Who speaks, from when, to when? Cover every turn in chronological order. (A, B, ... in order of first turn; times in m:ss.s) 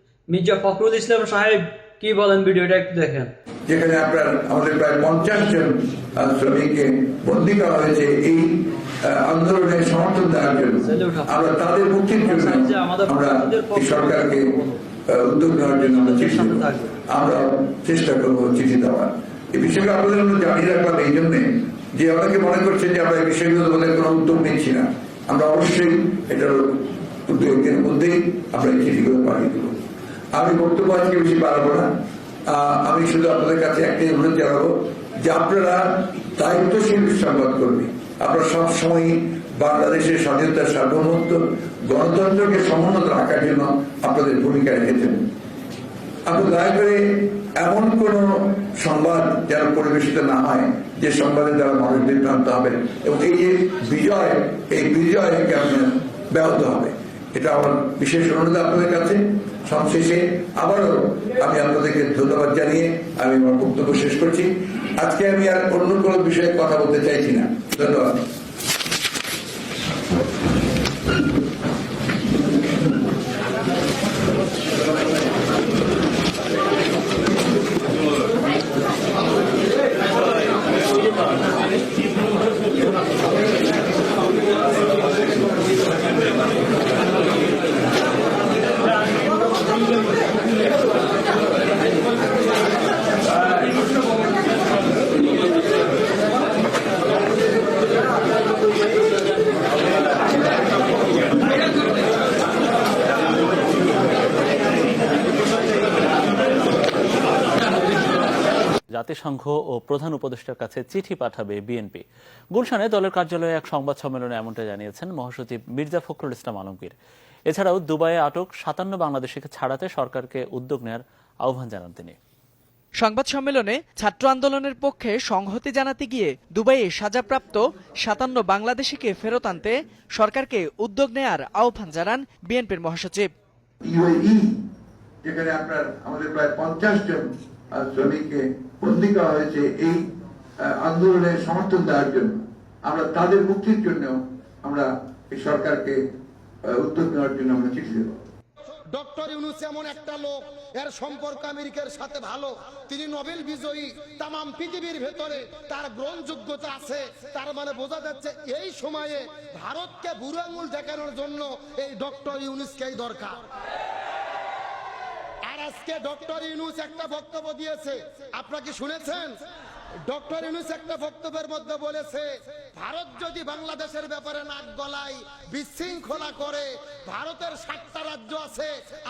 0:00.3-0:03.3 A
0:03.7-0:14.5 B
0:10.8-0:11.4 A
0:12.2-0:14.8 A
0:15.1-0:29.8 B
0:15.6-0:17.0 A
0:30.3-0:31.9 B
0:32.5-0:45.2 B
0:46.3-1:08.2 B
1:48.9-1:52.0 C
1:52.5-1:56.9 C
1:57.5-2:02.2 C
2:03.0-2:13.3 D
2:13.8-2:14.6 B
2:15.2-2:20.0 B
2:20.6-2:26.0 B
2:26.6-2:28.2 B
2:28.9-2:43.4 E
2:45.4-2:49.3 E
2:50.1-2:58.7 E